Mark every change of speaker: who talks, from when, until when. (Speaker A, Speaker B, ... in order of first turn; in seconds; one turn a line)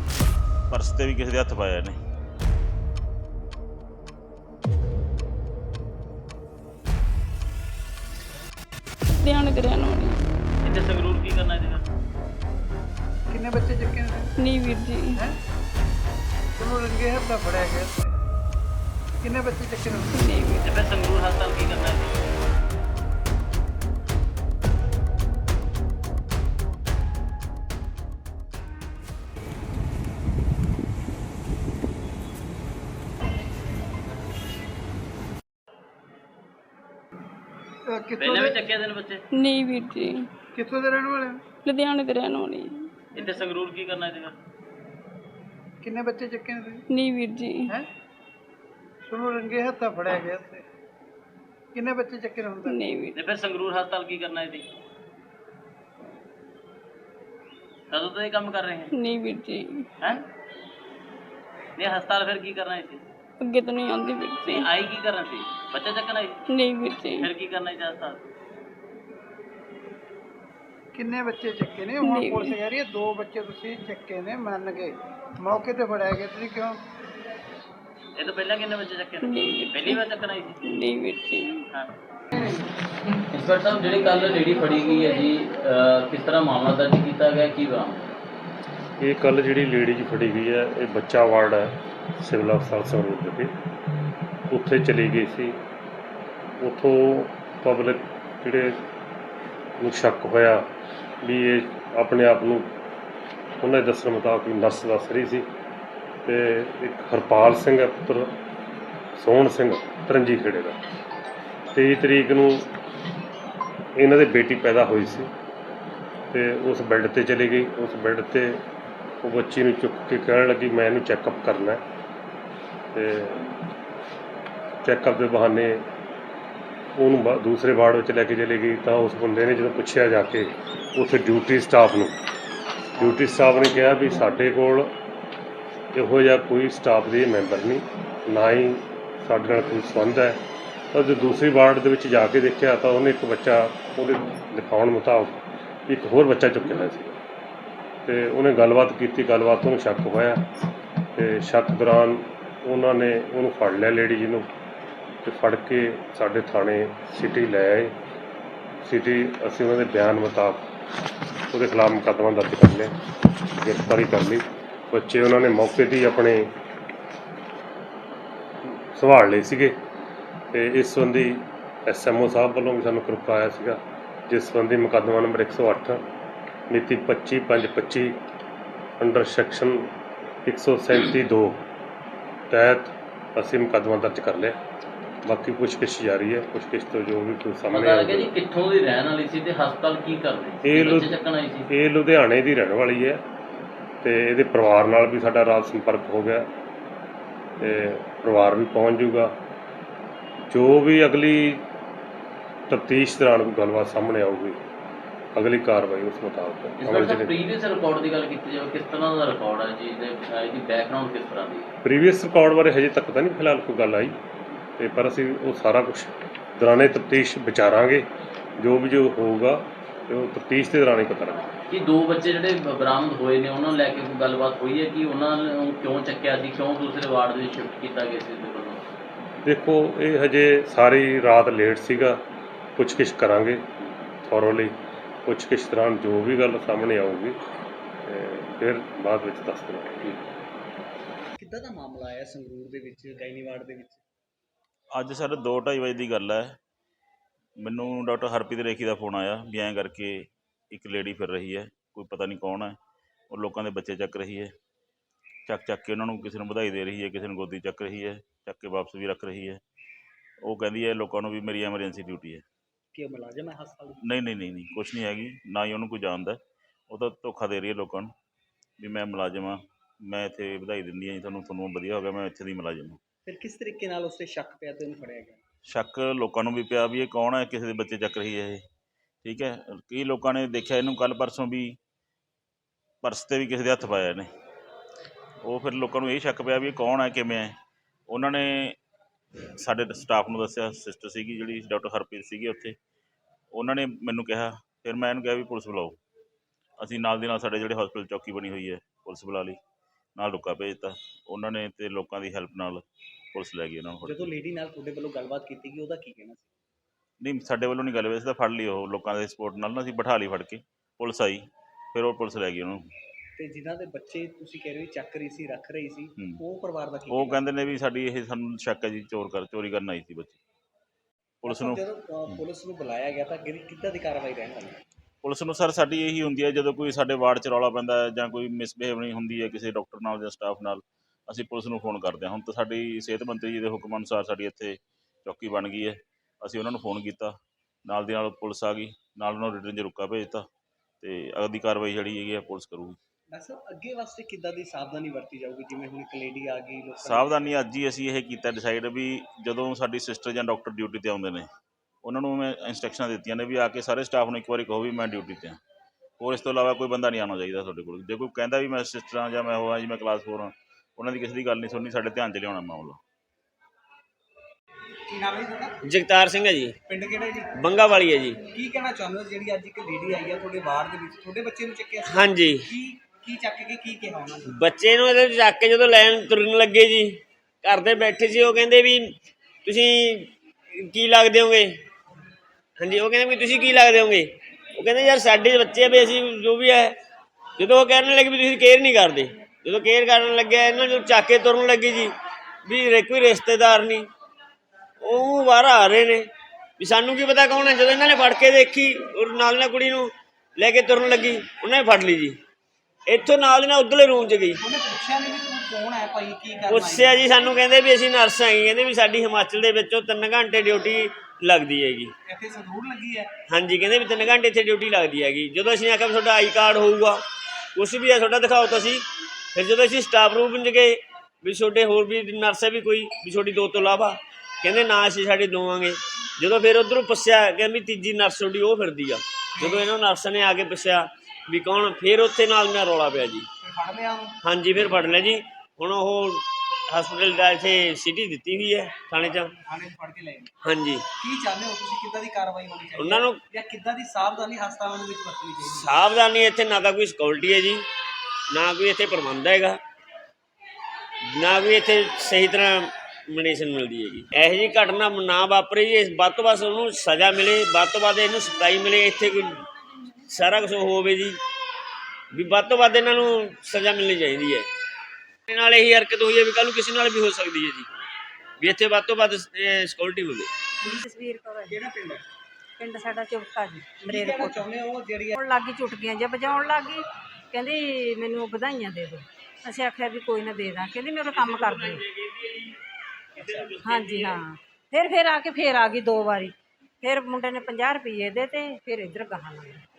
Speaker A: 0.7-2.0
Speaker B: 9.2-10.2
Speaker C: 10.6-11.8
Speaker D: 13.3-14.3
Speaker B: 14.4-15.2
Speaker D: 16.6-18.1
Speaker D: 19.2-20.3
Speaker B: 20.1-20.6
Speaker C: 20.6-22.3
Speaker D: 37.9-38.6
Speaker C: 38.2-39.2
Speaker B: 39.3-40.3
Speaker D: 40.5-41.4
Speaker B: 41.6-43.0
Speaker D: 43.2-43.4
Speaker C: 43.2-44.4
Speaker D: 45.8-46.8
Speaker B: 46.9-47.7
Speaker D: 49.1-50.6
Speaker D: 51.7-52.9
Speaker B: 52.6-53.1
Speaker C: 53.1-54.7
Speaker C: 57.9-58.9
Speaker B: 58.9-59.9
Speaker C: 61.8-63.0
Speaker B: 63.4-64.7
Speaker C: 64.5-66.4
Speaker B: 66.5-67.3
Speaker C: 67.2-68.2
Speaker D: 70.9-76.8
Speaker B: 72.0-72.6
Speaker C: 78.2-80.6
Speaker B: 79.2-80.0
Speaker B: 80.6-81.6
Speaker C: 83.3-88.2
Speaker E: 89.0-93.5
Speaker E: 94.5-95.6
Speaker E: 96.6-98.8
Speaker E: 99.8-100.6
Speaker E: 101.2-102.7
Speaker E: 103.6-105.5
Speaker E: 106.3-108.3
Speaker E: 109.2-110.8
Speaker E: 111.7-112.7
Speaker E: 114.0-115.3
Speaker E: 116.3-118.6
Speaker E: 119.2-121.8
Speaker E: 122.9-123.4
Speaker E: 124.8-125.8
Speaker E: 127.0-132.2
Speaker E: 133.0-134.9
Speaker E: 135.9-140.4
Speaker E: 140.9-147.2
Speaker E: 148.1-150.4
Speaker E: 151.2-154.5
Speaker E: 155.2-157.9
Speaker E: 158.8-160.7
Speaker E: 161.5-162.9
Speaker E: 163.6-166.4
Speaker E: 168.9-169.8
Speaker E: 170.5-173.8
Speaker E: 174.3-176.0
Speaker E: 176.7-178.2
Speaker E: 179.0-179.9
Speaker E: 180.5-181.7
Speaker E: 182.5-184.6
Speaker E: 185.3-188.3
Speaker C: 187.7-191.7
Speaker E: 190.6-191.2
Speaker E: 191.7-193.2
Speaker E: 194.0-196.5
Speaker E: 197.6-199.3
Speaker E: 200.5-201.7
Speaker E: 202.7-204.6
Speaker E: 205.3-207.4
Speaker C: 206.8-211.7
Speaker E: 211.8-214.2
Speaker E: 214.8-218.1
Speaker E: 218.6-221.5
Speaker C: 221.7-228.8
Speaker E: 229.4-232.2
Speaker E: 232.8-233.7
Speaker E: 234.2-234.7
Speaker E: 235.3-237.4
Speaker E: 238.1-240.2
Speaker F: 241.4-244.0
Speaker A: 244.9-246.6
Speaker A: 247.6-252.8
Speaker A: 253.3-254.5
Speaker A: 255.5-259.6
Speaker A: 260.4-262.4
Speaker F: 262.9-264.0
Speaker A: 264.0-268.1
Speaker A: 268.8-273.0
Speaker F: 273.3-275.4
Speaker A: 275.7-278.6
Speaker A: 279.2-281.8
Speaker A: 283.0-284.3
Speaker A: 285.4-287.5
Speaker A: 288.1-288.8
Speaker A: 289.6-292.8
Speaker A: 293.5-296.0
Speaker A: 296.8-299.6
Speaker A: 300.2-304.3
Speaker F: 304.0-306.5
Speaker A: 307.2-312.8
Speaker F: 313.4-317.4
Speaker A: 317.1-320.4
Speaker A: 321.4-321.8
Speaker F: 321.4-324.8
Speaker A: 325.2-340.4
Speaker A: 341.0-343.0
Speaker F: 343.3-347.3
Speaker A: 347.0-351.5
Speaker A: 352.0-355.6
Speaker A: 356.2-363.0
Speaker F: 365.1-365.8
Speaker G: 365.8-366.8
Speaker F: 366.9-367.5
Speaker G: 367.6-368.4
Speaker F: 368.5-374.6
Speaker G: 372.0-372.7
Speaker G: 374.5-379.1
Speaker G: 379.6-381.8
Speaker G: 382.8-387.0
Speaker G: 387.6-392.1
Speaker G: 392.7-394.1
Speaker G: 395.0-396.3
Speaker G: 396.8-402.4
Speaker G: 403.1-404.6
Speaker F: 404.6-407.3
Speaker G: 406.7-412.1
Speaker F: 412.3-413.3
Speaker G: 413.5-417.2
Speaker G: 417.8-419.0
Speaker G: 419.6-433.5
Speaker F: 429.6-429.9
Speaker F: 433.6-434.4
Speaker G: 434.4-439.6
Speaker F: 439.6-440.5
Speaker G: 440.6-441.1
Speaker F: 441.2-445.9
Speaker G: 443.0-443.4
Speaker G: 445.6-447.9
Speaker G: 448.5-449.8
Speaker G: 451.4-459.5
Speaker G: 460.3-461.4
Speaker G: 462.3-464.7
Speaker G: 465.5-467.9
Speaker G: 468.6-470.5
Speaker H: 470.8-471.8
Speaker F: 471.7-472.2
Speaker H: 472.8-474.6
Speaker F: 474.0-475.4
Speaker H: 475.3-482.1
Speaker F: 483.4-483.8
Speaker H: 483.8-489.8